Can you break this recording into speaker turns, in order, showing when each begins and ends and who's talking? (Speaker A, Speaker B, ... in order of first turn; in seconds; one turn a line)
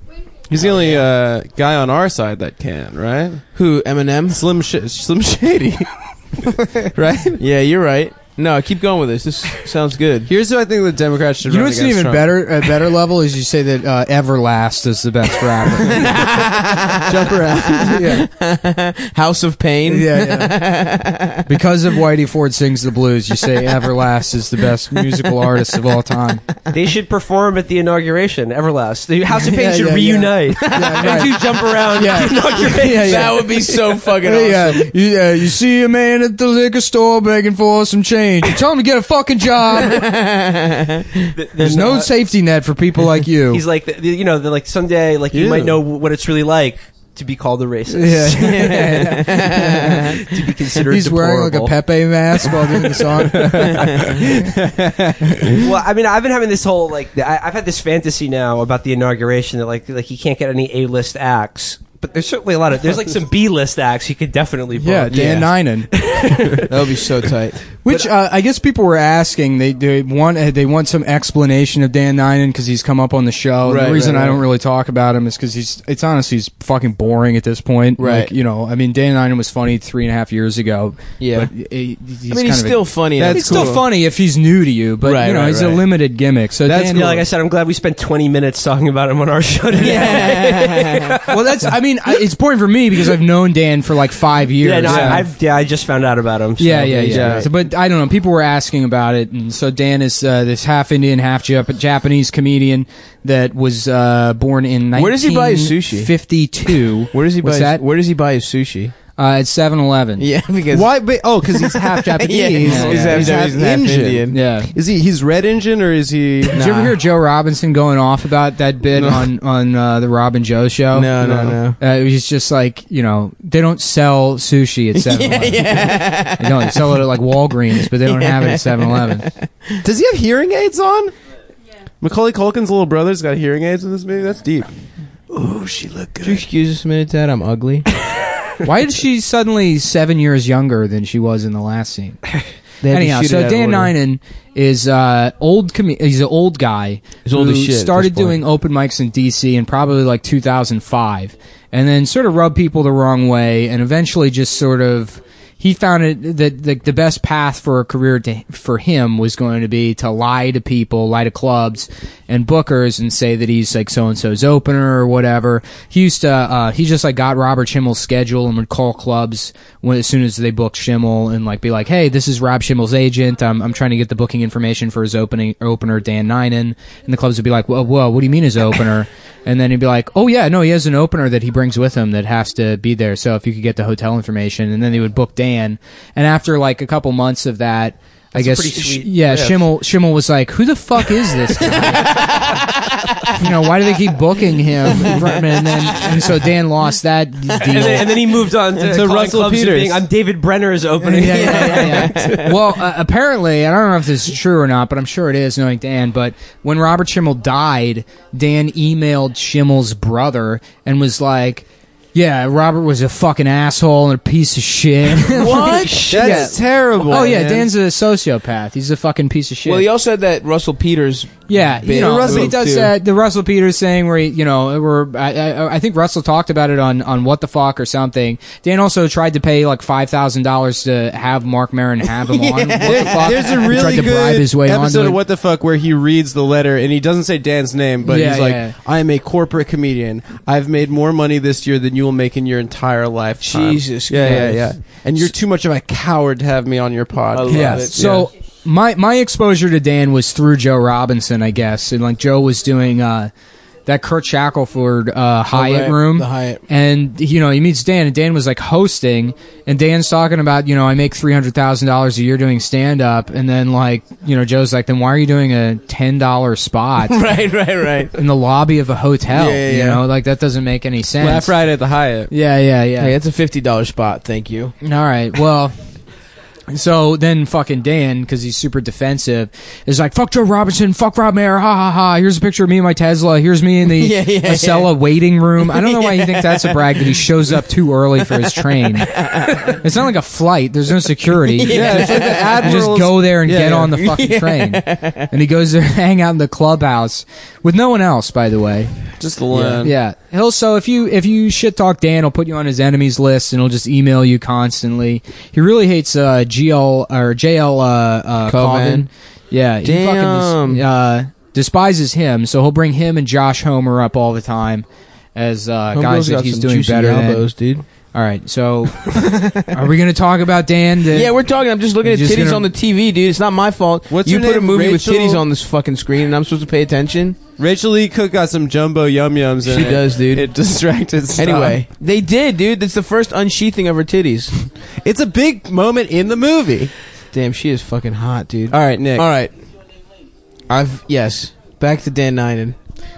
Speaker A: 0.5-3.4
Speaker B: 0.6-1.0
Speaker B: 3.5-4.4
Speaker A: 4.3-7.4
Speaker B: 7.4-10.3
Speaker A: 10.3-12.7
Speaker C: 11.4-16.1
Speaker B: 15.7-21.5
Speaker A: 17.1-18.0
Speaker C: 17.8-18.3
Speaker C: 19.9-20.6
Speaker C: 21.4-26.4
Speaker B: 23.5-23.8
Speaker B: 24.9-25.6
Speaker D: 26.7-33.8
Speaker C: 29.4-33.5
Speaker B: 30.5-31.3
Speaker B: 32.5-34.9
Speaker C: 34.2-40.1
Speaker B: 39.7-41.3
Speaker D: 41.3-42.1
Speaker C: 41.6-43.6
Speaker D: 43.5-51.7
Speaker A: 45.3-45.8
Speaker C: 47.9-50.2
Speaker B: 48.4-50.2
Speaker C: 50.9-54.1
Speaker A: 53.3-55.6
Speaker B: 53.8-54.2
Speaker D: 55.6-66.8
Speaker C: 64.8-65.9
Speaker B: 65.1-65.5
Speaker B: 66.7-67.6
Speaker C: 67.8-87.2
Speaker B: 73.6-74.4
Speaker B: 78.0-78.3
Speaker B: 81.2-81.5
Speaker B: 82.3-83.8
Speaker A: 83.2-83.8
Speaker B: 85.0-85.8
Speaker D: 86.7-91.4
Speaker B: 89.7-91.1
Speaker C: 91.3-95.3
Speaker D: 94.6-97.4
Speaker B: 94.8-95.2
Speaker C: 96.6-107.8
Speaker B: 96.9-97.5
Speaker B: 104.9-106.1
Speaker B: 107.1-108.9
Speaker C: 109.2-110.3
Speaker B: 110.2-110.9
Speaker A: 110.7-116.7
Speaker B: 111.4-114.4
Speaker C: 112.5-113.4
Speaker C: 114.3-114.7
Speaker B: 116.5-117.0
Speaker C: 116.5-129.3
Speaker A: 119.0-119.2
Speaker B: 120.9-121.8
Speaker A: 121.2-121.6
Speaker B: 124.9-127.1
Speaker B: 127.7-129.8
Speaker A: 129.8-131.1
Speaker A: 132.0-134.7
Speaker D: 135.3-136.0
Speaker A: 135.8-136.4
Speaker B: 136.2-137.9
Speaker C: 138.6-142.2
Speaker B: 142.8-143.9
Speaker C: 142.9-192.6
Speaker B: 147.2-148.4
Speaker D: 188.3-189.6
Speaker B: 191.5-193.5
Speaker C: 193.3-198.2
Speaker B: 194.8-196.4
Speaker D: 197.6-202.5
Speaker A: 198.8-200.0
Speaker B: 201.0-202.6
Speaker C: 201.1-219.9
Speaker B: 215.2-216.4
Speaker D: 215.7-216.5
Speaker A: 216.1-217.7
Speaker B: 219.6-222.9
Speaker C: 221.5-235.2
Speaker A: 221.9-222.5
Speaker B: 232.1-234.0
Speaker A: 232.8-248.3
Speaker C: 238.0-238.7
Speaker B: 243.4-244.8
Speaker B: 247.3-248.0
Speaker C: 247.5-253.3
Speaker C: 253.8-267.4
Speaker B: 255.5-256.6
Speaker B: 267.1-268.1
Speaker C: 268.1-271.5
Speaker B: 269.3-270.0
Speaker A: 271.2-272.3
Speaker C: 272.3-273.1
Speaker B: 273.0-274.7
Speaker C: 274.8-275.8
Speaker C: 276.7-298.9
Speaker B: 283.9-285.0
Speaker B: 285.6-287.3
Speaker B: 288.3-289.8
Speaker B: 291.3-292.8
Speaker A: 291.6-293.9
Speaker B: 293.9-295.3
Speaker A: 299.2-299.9
Speaker B: 299.5-299.9
Speaker C: 299.8-317.5
Speaker B: 308.4-309.1
Speaker B: 309.8-310.9
Speaker B: 315.9-317.8
Speaker C: 318.1-321.4
Speaker B: 319.0-319.8
Speaker B: 321.1-327.4
Speaker C: 322.0-322.7
Speaker A: 324.1-325.4
Speaker A: 327.6-331.8
Speaker B: 329.6-330.5
Speaker B: 331.4-334.5
Speaker A: 334.8-336.9
Speaker B: 337.3-339.5
Speaker A: 338.7-339.3
Speaker B: 340.7-342.8